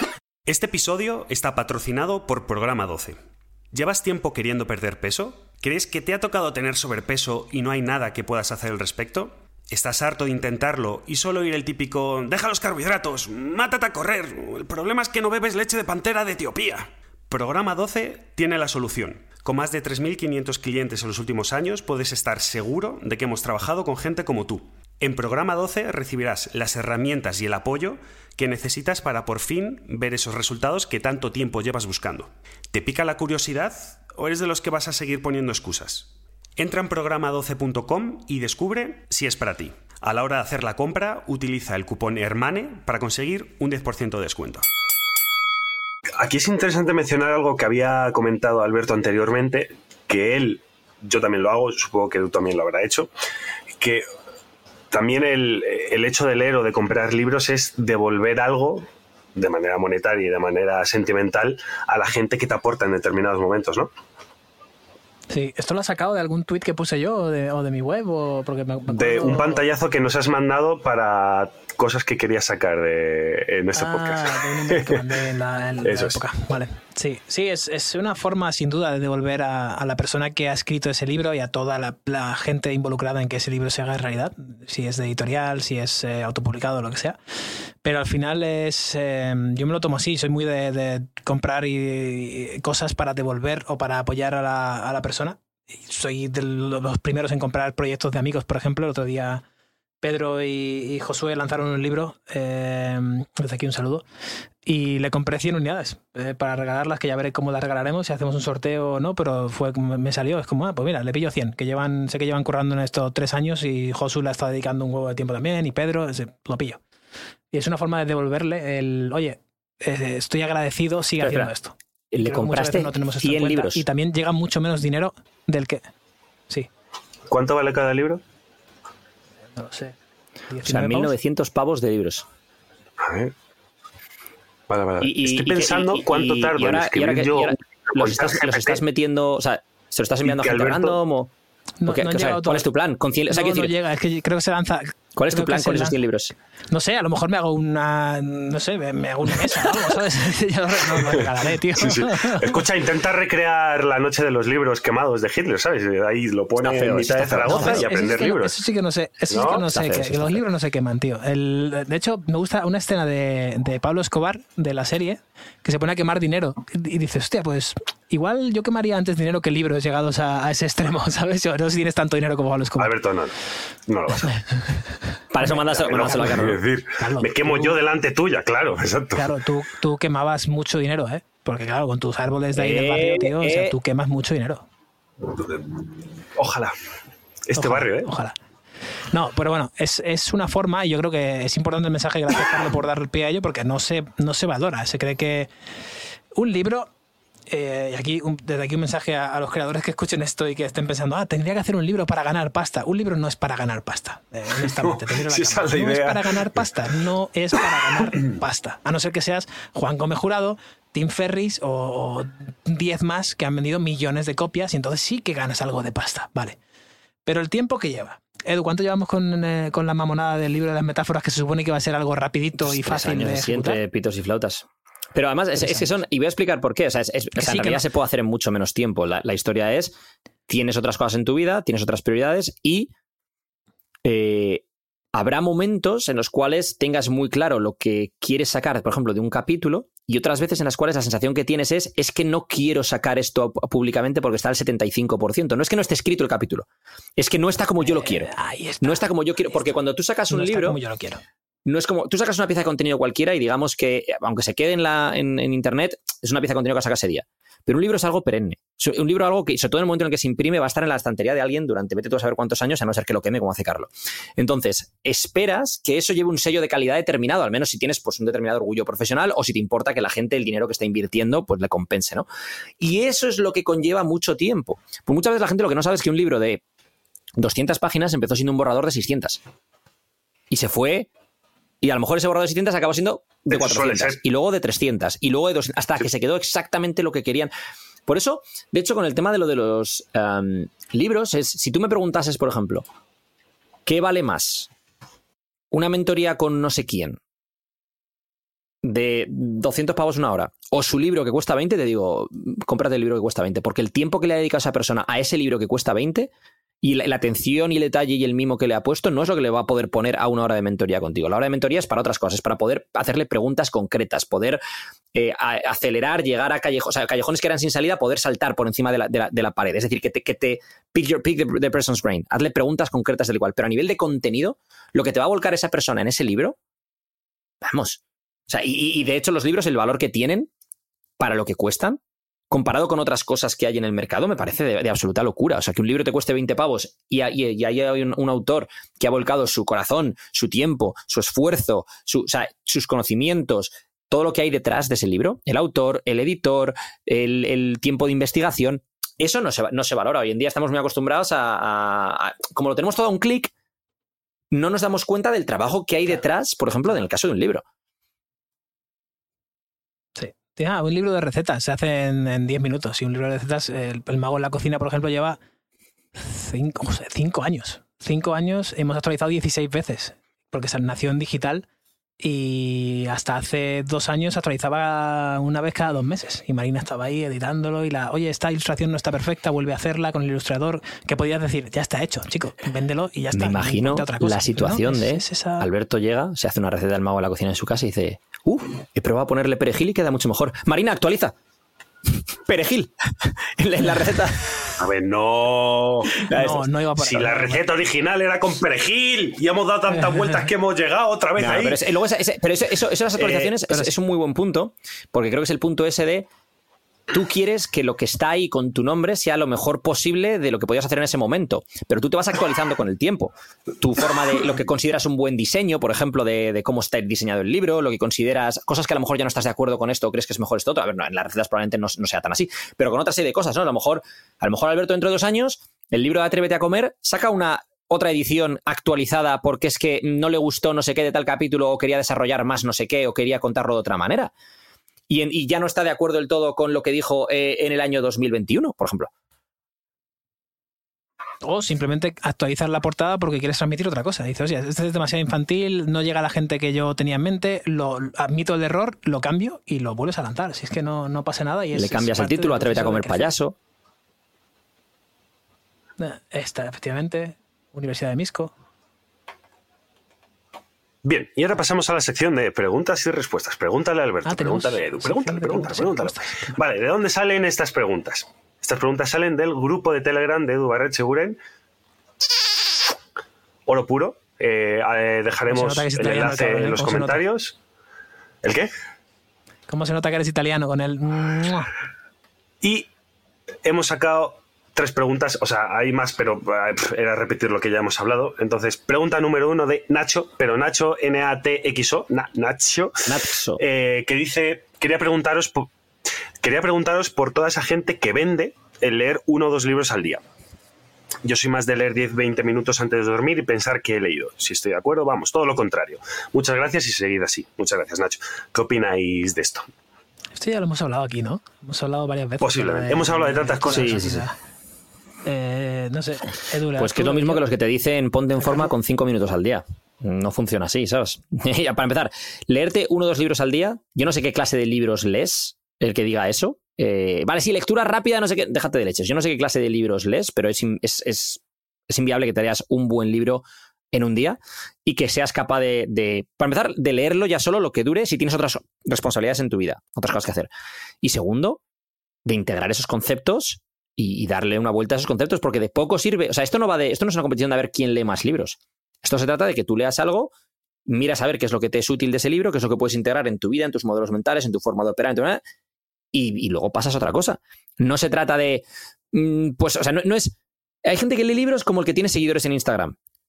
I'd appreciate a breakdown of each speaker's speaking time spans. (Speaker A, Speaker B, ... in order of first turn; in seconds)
Speaker A: 0.5-3.2, 3.7-44.7
Speaker B: 46.2-53.1, 53.8-54.0, 54.9-63.9, 68.9-75.1, 75.8-76.2, 127.3-128.2, 133.0-133.3, 134.7-138.8, 140.2-141.0, 151.1-158.6, 159.3-159.7, 172.8-173.4, 173.9-174.4, 175.6-179.3, 185.3-185.8, 186.3-186.7, 187.5-188.1, 204.6-206.7, 283.5-284.2, 394.8-401.8, 461.0-471.4, 473.7-477.6, 478.4-478.7, 482.6-482.9, 483.6-495.7, 496.4-500.2, 501.2-509.6, 512.4-514.2
Speaker C: 65.3-69.7, 73.8-87.2, 87.8-99.4, 100.0-104.0, 104.7-116.8, 117.5-125.8, 129.6-130.0, 130.5-131.1, 141.8-142.7, 143.3-146.0, 146.7-152.6, 157.5-172.9, 175.5-176.4, 177.0-177.8, 179.2-184.7, 187.5-188.3, 189.1-195.5, 196.3-196.9, 197.5-216.6, 217.3-223.8, 225.6-225.9, 227.4-227.8, 247.8-249.0, 250.3-251.2, 360.2-365.4, 366.2-371.7, 372.2-385.7, 396.3-397.7, 441.4-453.3, 456.0-458.5, 464.3-466.5, 475.5-477.2, 479.7-481.7, 510.4-514.3, 515.2-517.4, 518.4-518.7
Speaker D: 121.2-121.5, 122.1-123.8, 130.7-132.2, 135.0-141.3, 141.9-143.7, 145.2-146.3, 156.6-157.9, 159.7-160.4, 175.3-176.6, 182.6-183.8, 222.6-229.9, 230.5-232.9, 234.1-234.6, 235.2-250.8, 251.7-272.3, 272.8-276.6, 277.4-279.4, 280.5-281.1, 281.8-287.5, 288.1-292.9, 293.9-294.7, 295.7-297.2, 298.8-306.3, 306.8-314.6, 315.1-326.6, 327.6-330.5, 331.2-332.0, 332.5-353.5, 354.5-357.6, 383.3-391.3, 392.5-394.5, 401.4-406.3, 407.1-434.3, 435.1-439.1, 451.8-453.6, 493.1-493.6, 513.7-514.2, 516.8-540.5, 541.0-541.6, 542.3-550.3, 550.9-555.4, 556.1-563.0